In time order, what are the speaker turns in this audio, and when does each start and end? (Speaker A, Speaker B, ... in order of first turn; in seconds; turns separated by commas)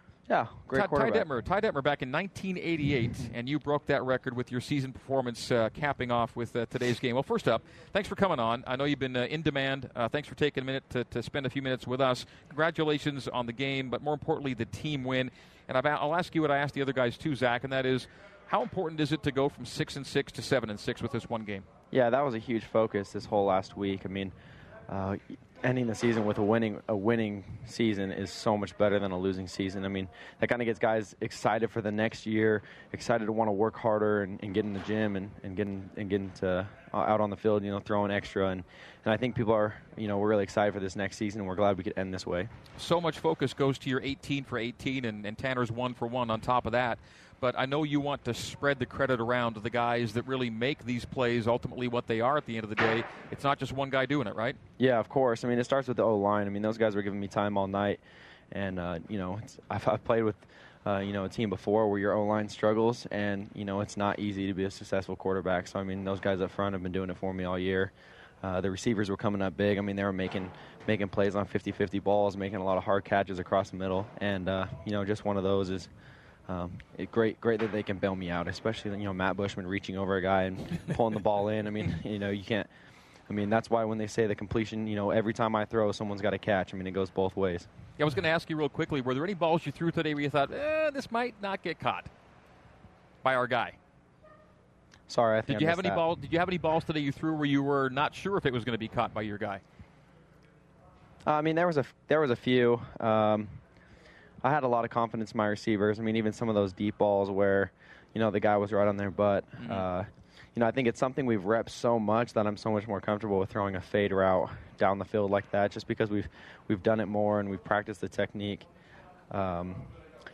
Speaker A: 0.3-1.3, Speaker B: 0.7-21.6, Speaker A: 21.9-24.3, Speaker A: 24.9-42.5, Speaker B: 42.8-54.6, Speaker A: 54.8-58.0, Speaker A: 58.5-67.9, Speaker A: 68.4-75.9, Speaker A: 76.5-82.7, Speaker A: 83.3-87.7, Speaker B: 88.0-92.1, Speaker B: 93.2-93.8, Speaker A: 95.1-96.0, Speaker B: 95.5-99.6, Speaker A: 101.2-103.6, Speaker A: 104.4-118.7, Speaker B: 109.6-109.8, Speaker A: 119.3-119.9